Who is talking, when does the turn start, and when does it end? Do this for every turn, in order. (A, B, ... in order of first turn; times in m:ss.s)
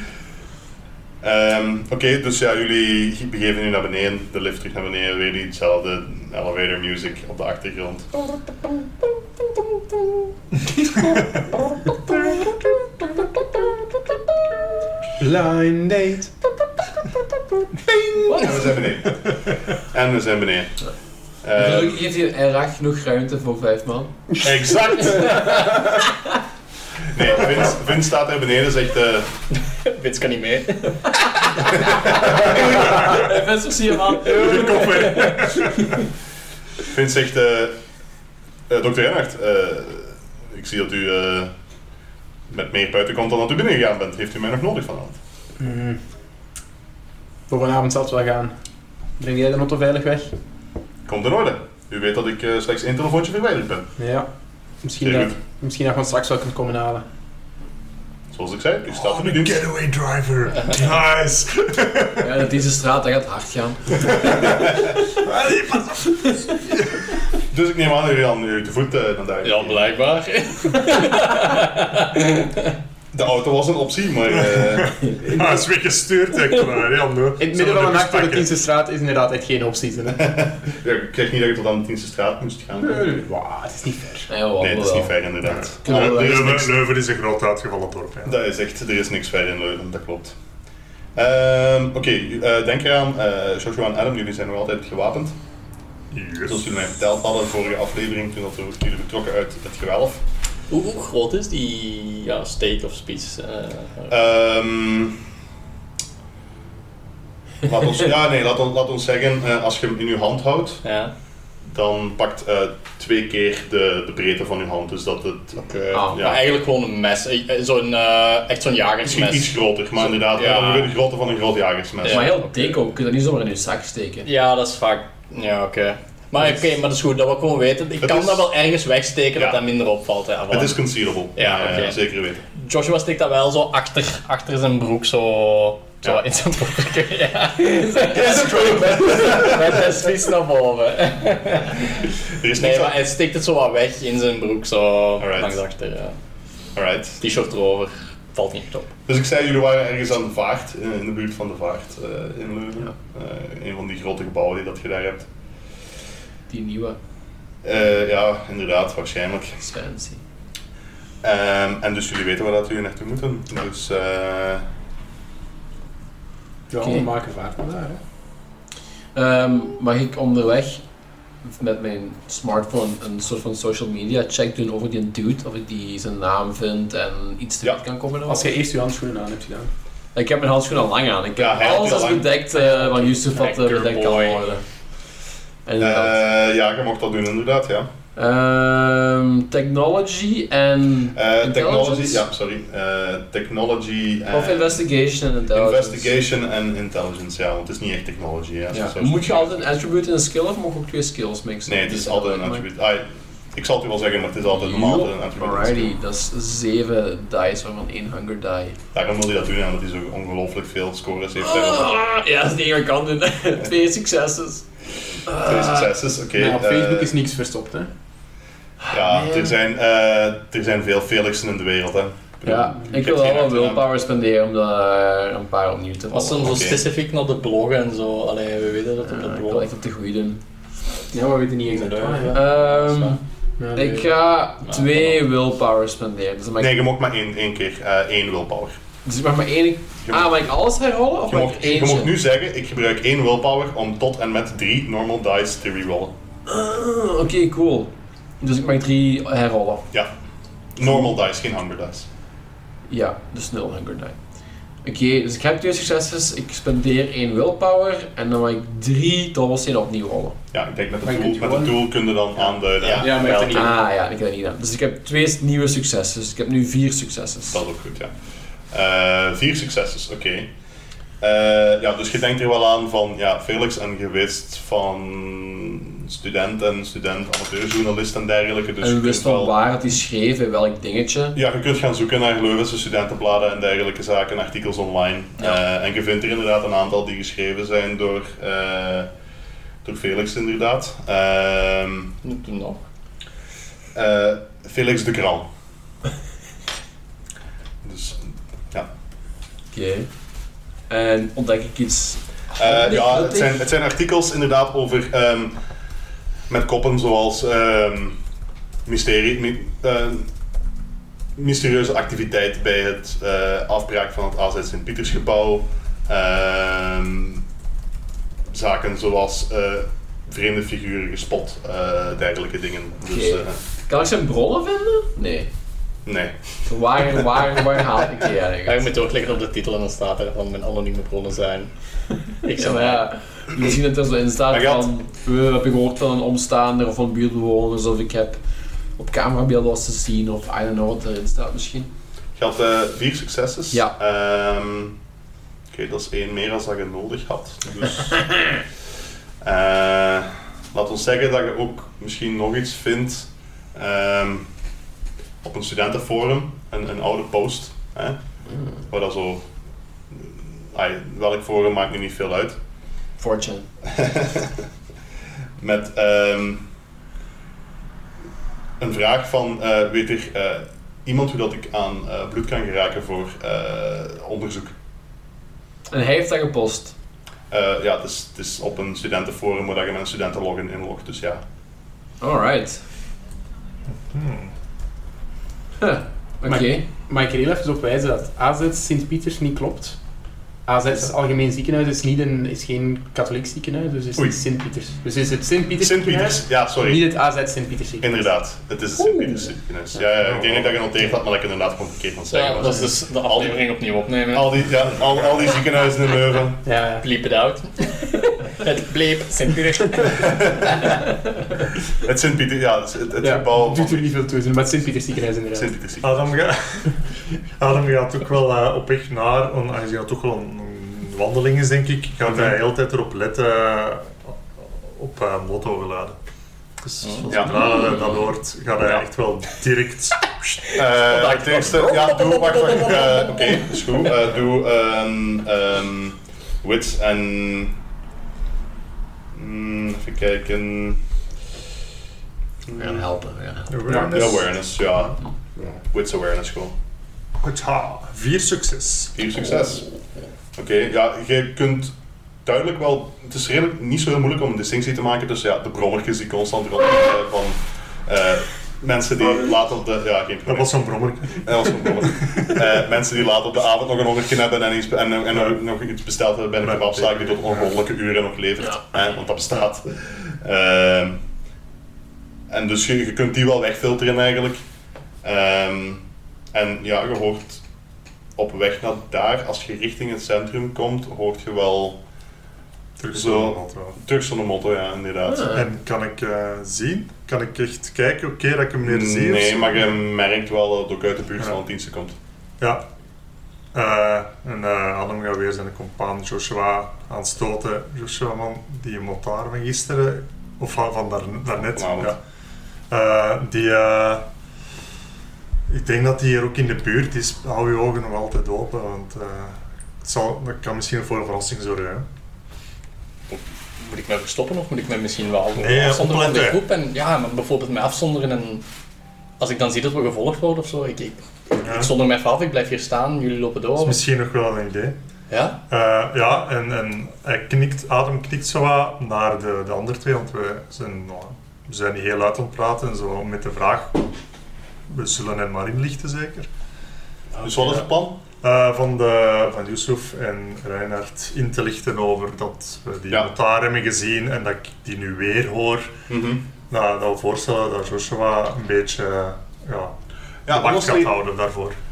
0:01.2-0:08.1 A
0:10.8-0:11.2 B
0:15.2-0:16.4 C
0:17.8-0:18.3 C
0:18.3-0:18.6 B
0:18.3-0:20.7 A
0:21.4-0:22.0 A
0:21.6-0:24.2 B
0:24.4-0:25.7 A
0:25.2-0:26.1 B
0:27.1-0:29.3 A
0:29.7-0:31.3 D
0:31.9-0:32.5 A
0:32.2-0:36.0 B
0:32.9-0:33.3 E
0:34.3-0:36.0 E
0:36.8-0:37.8 A
0:38.7-0:41.5 A
0:42.5-0:45.2 A
0:45.6-0:46.0 C
0:47.5-0:48.5 C
0:49.2-0:50.4 C
0:51.1-0:53.9 A
0:54.0-0:54.3 C
0:54.8-0:57.0 C
0:55.0-0:55.3 A
0:58.3-0:59.6 A
0:58.9-1:02.3 E
1:02.2-1:04.6 B
1:04.4-1:05.0 A
1:05.2-1:07.1 E
1:06.2-1:06.5 B
1:07.4-1:09.9 A
1:09.4-1:12.5 D
1:13.1-1:15.1 A
1:14.3-1:18.5 E
1:15.2-1:15.6 C
1:17.4-1:20.3 C
1:20.2-1:23.2 A
1:22.8-1:24.3 C
1:24.3-1:25.2 B
1:24.6-1:26.8 A
1:25.4-1:28.4 E
1:25.8-1:26.6 B
1:28.3-1:30.4 A
1:31.2-1:35.4 A
1:36.1-1:36.7 E
1:36.5-1:40.2 A
1:40.7-1:44.1 D
1:44.1-1:45.2 A
1:47.6-1:50.8 A
1:50.8-1:51.1 D
1:51.7-1:56.4 A
1:55.7-2:00.9 D
1:55.9-1:56.2 B
1:59.1-2:02.3 A
2:02.0-2:02.8 D
2:02.1-2:04.3 B
2:04.2-2:10.8 D
2:08.0-2:08.4 A
2:10.5-2:12.4 A
2:11.4-2:12.0 D
2:12.6-2:26.2 D
2:17.6-2:19.5 B
2:18.1-2:19.9 A
2:22.3-2:23.0 A
2:25.2-2:25.6 A
2:26.8-2:27.2 A
2:27.2-2:28.9 D
2:29.1-2:35.3 A
2:36.5-2:37.0 B
2:37.6-2:39.6 A
2:39.6-2:40.2 B
2:41.2-2:44.6 A
2:46.7-2:48.0 C
2:46.8-2:47.1 B
2:49.2-2:50.8 B
2:51.4-2:58.5 B
2:58.3-2:59.7 C
3:00.2-3:04.6 B
3:01.4-3:02.3 A
3:02.6-3:04.6 D
3:05.7-3:06.1 B
3:05.8-3:07.9 A
3:08.2-3:12.2 B
3:11.2-3:14.8 A
3:14.3-3:16.1 B
3:15.5-3:19.6 A
3:18.7-3:22.6 B
3:21.7-3:25.9 A
3:24.5-3:28.8 B
3:28.9-3:32.0 A
3:31.4-3:34.7 B
3:35.3-3:35.9 B
3:35.3-3:37.1 A
3:36.4-3:37.9 C
3:38.8-3:39.5 B
3:38.9-3:43.8 A
3:42.4-3:46.8 B
3:46.1-3:49.7 D
3:46.4-3:46.8 A
3:49.0-3:50.4 B
3:51.1-3:52.4 C
3:51.7-3:53.2 D
3:52.3-3:53.2 B
3:53.6-3:54.1 C
3:53.7-3:56.8 B
3:54.7-3:55.2 D
3:56.6-3:58.7 A
3:59.0-4:02.2 B
4:00.1-4:00.3 A
4:01.3-4:06.1 A
4:06.5-4:09.8 B
4:10.8-4:12.1 A
4:12.9-4:14.2 B
4:14.8-4:20.4 B
4:20.5-4:23.7 A
4:21.0-4:21.8 C
4:22.8-4:23.8 C
4:23.4-4:27.6 B
4:27.5-4:28.1 A
4:28.7-4:30.5 A
4:31.2-4:39.5 A
4:38.8-4:41.4 B
4:41.4-4:49.1 A
4:49.8-4:52.1 A
4:52.2-4:52.8 D
4:53.9-4:55.5 A
4:57.8-4:58.9 A
4:59.7-5:00.1 B
5:00.9-5:03.6 B
5:02.6-5:05.6 A
5:06.5-5:08.2 A
5:08.9-5:10.3 A
5:11.4-5:17.4 A
5:18.5-5:23.6 A
5:23.1-5:25.5 B
5:26.1-5:26.7 A
5:26.7-5:28.9 B
5:28.7-5:31.7 D
5:32.4-5:33.0 D
5:32.6-5:38.4 B
5:34.5-5:34.9 A
5:39.0-5:41.9 B
5:42.4-5:45.0 A
5:45.7-5:48.5 A
5:49.4-5:54.5 A
5:55.4-5:58.2 A
5:58.9-5:59.5 A
6:00.1-6:02.6 A
6:03.2-6:03.7 B
6:03.9-6:04.6 A
6:05.6-6:06.6 A
6:08.8-6:14.7 A
6:15.9-6:17.0 B
6:17.5-6:21.4 A
6:22.2-6:22.8 B
6:24.0-6:24.5 E
6:25.8-6:26.8 B
6:26.5-6:30.0 C
6:30.7-6:38.2 C
6:35.8-6:37.1 A
6:38.0-6:43.6 A
6:40.2-6:40.8 E
6:42.3-6:44.7 D
6:44.3-6:46.6 A
6:46.6-6:47.1 C
6:47.0-6:50.9 D
6:50.2-6:50.8 A
6:52.0-6:54.1 A
6:53.2-6:55.7 C
6:55.6-6:56.2 A
6:56.0-6:57.0 E
6:57.6-7:06.2 E
7:06.8-7:10.6 E
7:07.0-7:07.4 D
7:07.3-7:07.7 A
7:10.7-7:13.9 D
7:10.8-7:17.8 A
7:19.3-7:21.0 A
7:22.7-7:23.0 A
7:22.8-7:24.0 B
7:23.7-7:24.5 E
7:23.9-7:24.3 C
7:23.9-7:25.2 A
7:25.9-7:26.7 A
7:27.4-7:29.1 E
7:29.2-7:29.9 A
7:30.6-7:31.9 A
7:32.4-7:51.2 A
7:40.5-7:42.6 E
7:46.6-7:47.7 E
7:52.5-7:54.6 A
7:55.2-7:57.6 A
7:58.4-8:02.0 A
8:03.0-8:04.0 E
8:03.1-8:05.6 A
8:05.3-8:05.6 B
8:05.5-8:09.9 E
8:08.8-8:12.2 A
8:13.7-8:22.2 E
8:21.6-8:22.2 A
8:22.9-8:24.3 E
8:25.7-8:32.1 E
8:33.3-8:38.6 D
8:35.6-8:36.6 E
8:39.4-8:44.0 D
8:41.6-8:41.9 E
8:43.8-8:45.0 E
8:45.3-8:45.6 D
8:45.7-8:54.1 E
8:54.9-8:56.5 E
8:57.4-8:58.2 A
8:58.4-9:06.0 E
9:06.1-9:06.4 A
9:06.7-9:10.0 E
9:10.5-9:11.1 A
9:10.5-9:11.8 E